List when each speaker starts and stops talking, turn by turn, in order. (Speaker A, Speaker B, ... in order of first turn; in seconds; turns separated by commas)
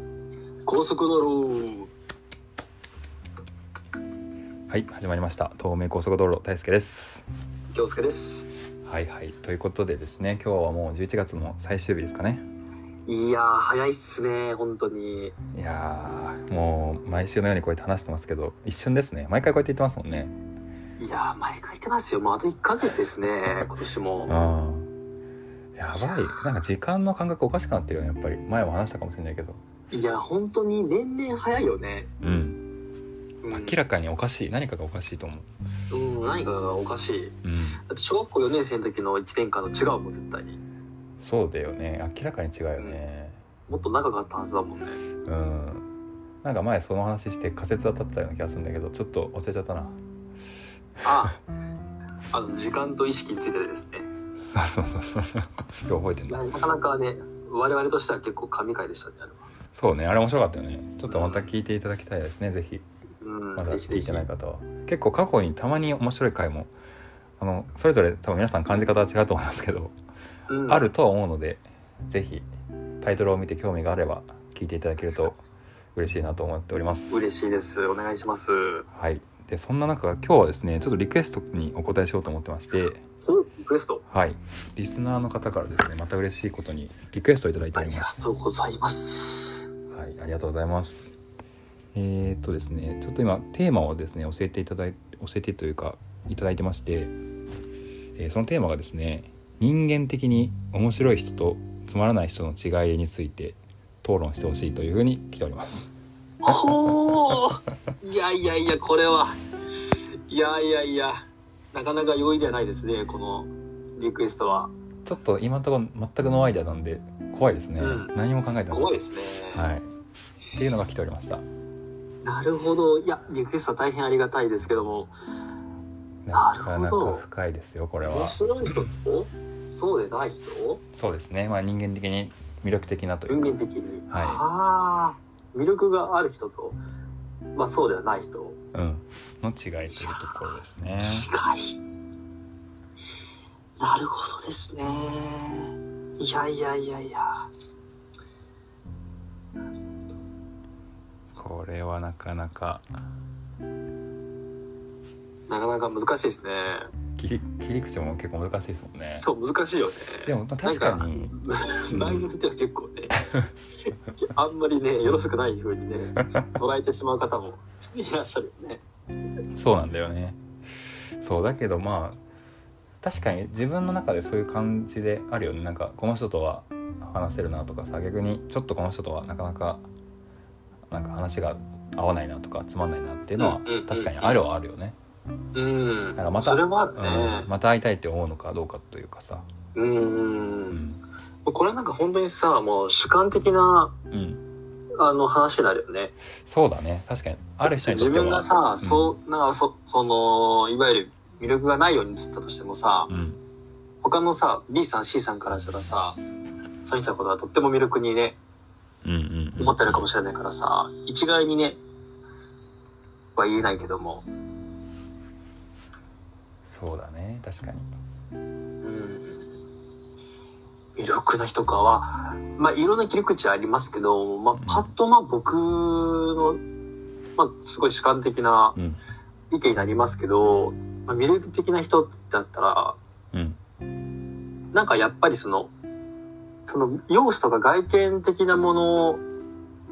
Speaker A: 0.7-1.9, Speaker B: 4.7-7.3, Speaker A: 7.7-8.5, Speaker B: 8.8-12.4, Speaker A: 13.1-15.3, Speaker B: 15.5-20.3, Speaker A: 21.0-24.3, Speaker B: 24.3-24.9, Speaker B: 25.8-29.6, Speaker A: 29.9-32.1, Speaker B: 32.2-32.6, Speaker A: 33.4-33.8, Speaker B: 33.5-35.5, Speaker A: 35.9-37.4, Speaker B: 37.4-37.8, Speaker A: 37.9-40.6, Speaker B: 41.2-43.4, Speaker A: 43.7-45.0, Speaker B: 45.2-45.9, Speaker B: 46.4-50.0, Speaker A: 51.0-51.4, Speaker A: 52.3-54.1, Speaker B: 54.3-56.4, Speaker A: 56.3-59.5, Speaker B: 59.7-62.8, Speaker A: 61.1-61.5, Speaker A: 63.2-64.2, Speaker B: 63.6-66.7, Speaker B: 67.4-69.9, Speaker A: 70.5-70.8, Speaker B: 70.7-72.5, Speaker B: 73.0-75.4, Speaker B: 76.0-77.3, Speaker A: 77.1-78.8, Speaker B: 78.9-83.0, Speaker A: 83.2-84.0, Speaker B: 84.1-88.3, Speaker A: 87.7-89.7, Speaker B: 89.9-91.1, Speaker B: 91.9-97.1, Speaker B: 98.2-105.9, Speaker A: 106.4-109.4, Speaker A: 110.3-114.7, Speaker B: 115.0-118.9, Speaker A: 117.8-118.1, Speaker A: 118.7-119.7, Speaker B: 119.5-119.9, Speaker B: 120.5-121.4, Speaker A: 122.2-125.1, Speaker B: 126.2-128.4, Speaker A: 126.3-127.2, Speaker A: 128.1-130.8, Speaker B: 130.9-133.6, Speaker A: 133.3-136.8, Speaker B: 134.1-134.4, Speaker A: 137.5-138.6, Speaker B: 138.7-141.3, Speaker A: 141.0-141.8, Speaker A: 143.8-147.4, Speaker B: 151.3-152.8, Speaker A: 155.5-156.9, Speaker B: 157.2-159.2, Speaker A: 158.9-163.2, Speaker B: 160.2-161.3, Speaker B: 161.9-162.3, Speaker A: 164.2-168.8, Speaker B: 169.5-170.4, Speaker B: 171.2-172.2, Speaker B: 173.0-179.8, Speaker B: 180.9-185.0, Speaker A: 183.4-184.4, Speaker A: 185.5-187.5, Speaker B: 186.2-189.4, Speaker A: 189.7-190.8, Speaker B: 190.7-191.0, Speaker A: 191.4-193.9, Speaker B: 194.1-194.4, Speaker A: 195.0-196.1, Speaker B: 196.4-199.1, Speaker A: 197.6-203.1, Speaker B: 203.1-203.4, Speaker A: 204.0-206.2, Speaker A: 206.8-208.4, Speaker B: 209.0-210.1, Speaker A: 209.6-211.8, Speaker A: 213.3-214.2, Speaker B: 216.7-217.9, Speaker A: 218.8-219.5, Speaker A: 220.9-226.6, Speaker B: 224.5-224.9, Speaker A: 227.4-228.8, Speaker B: 228.8-229.0, Speaker A: 229.5-233.0, Speaker B: 233.3-233.6, Speaker A: 234.7-235.7, Speaker A: 236.7-239.2